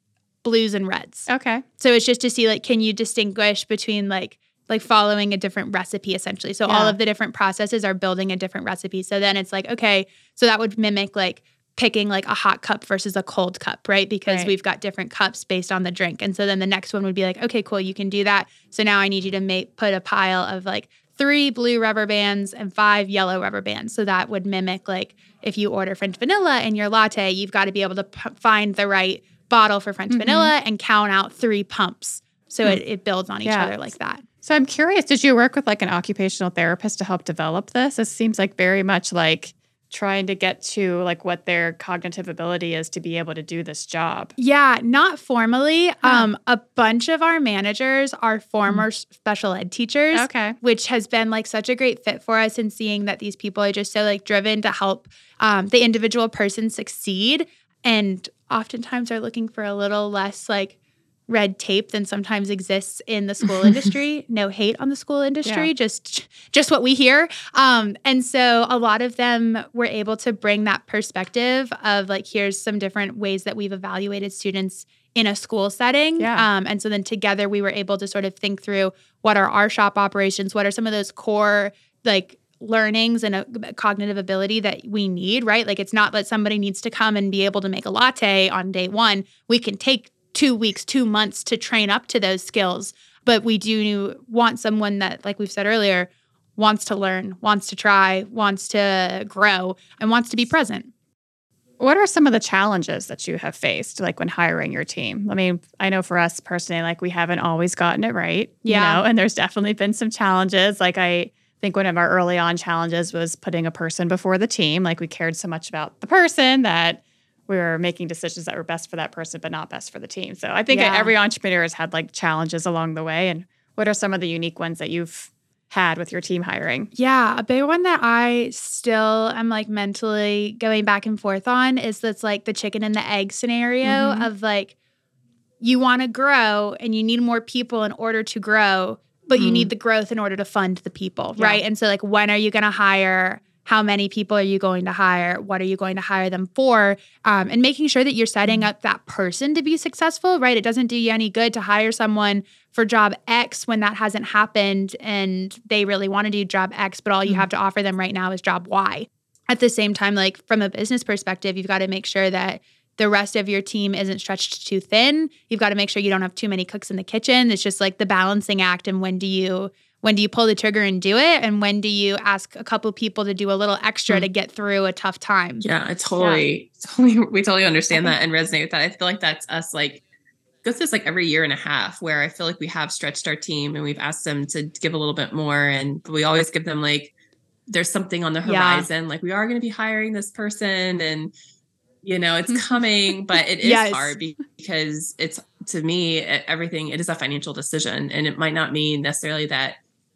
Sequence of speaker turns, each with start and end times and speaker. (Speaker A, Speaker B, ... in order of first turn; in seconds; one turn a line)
Speaker A: 0.4-34.2
Speaker B: 1.3-1.6
Speaker B: 6.7-7.0
Speaker B: 14.2-14.5
Speaker B: 30.1-30.5
Speaker B: 33.4-44.3
Speaker A: 44.4-60.7
Speaker B: 46.0-46.3
Speaker B: 50.1-50.6
Speaker A: 61.3-100.9
Speaker B: 65.4-65.7
Speaker B: 76.2-76.5
Speaker B: 101.8-126.9
Speaker A: 108.6-109.0
Speaker A: 120.7-121.1
Speaker A: 126.9-134.7
Speaker B: 133.8-134.3
Speaker A: 135.6-175.6
Speaker C: 139.3-139.7
Speaker B: 141.3-141.6
Speaker C: 175.6-180.0
Speaker B: 176.2-176.4
Speaker C: 180.6-187.1
Speaker C: 187.7-191.3
Speaker A: 188.4-188.9
Speaker C: 192.0-199.8
Speaker A: 193.6-194.2